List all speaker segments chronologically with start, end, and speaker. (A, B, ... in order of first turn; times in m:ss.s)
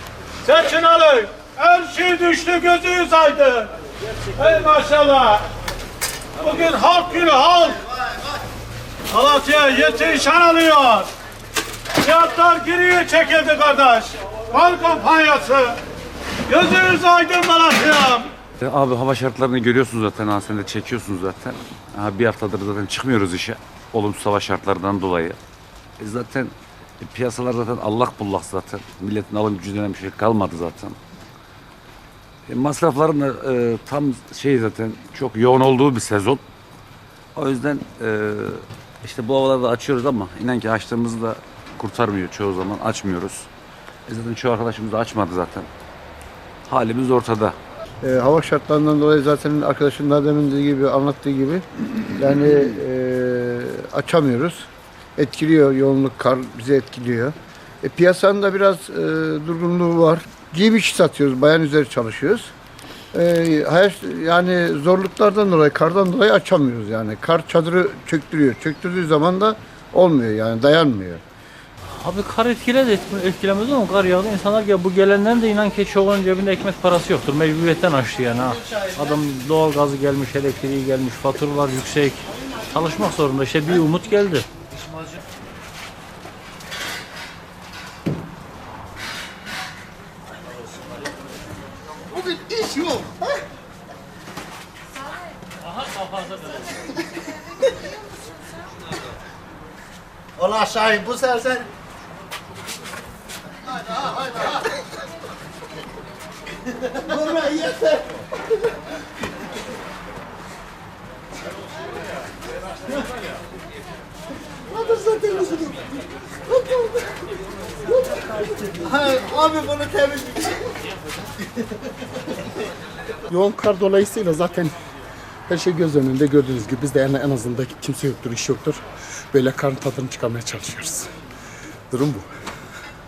0:00.4-0:03.7 A
0:04.2-0:05.4 A
0:06.4-0:08.0 A
0:09.1-0:11.1 A
0:12.0-0:15.8 A
0:16.5-0:18.3 A
0:18.6-0:25.4 B
0:26.0-0:31.0 B
0:32.5-0:36.4 B
0:37.4-0:43.5 B
0:44.1-0:45.7 B
0:46.6-0:47.6 B
0:48.0-1:02.5 C
1:03.1-1:11.2 C
1:12.0-1:24.5 D
1:32.1-1:33.1 C
1:40.4-1:41.7 E
1:47.2-1:47.9 C
1:47.5-1:47.9 E
1:54.7-1:55.7 C
1:54.8-1:55.7 E
1:58.6-2:00.4 E
1:58.8-2:00.2 C
2:03.3-2:04.7 F
2:05.5-2:11.1 F
2:11.9-2:12.3 F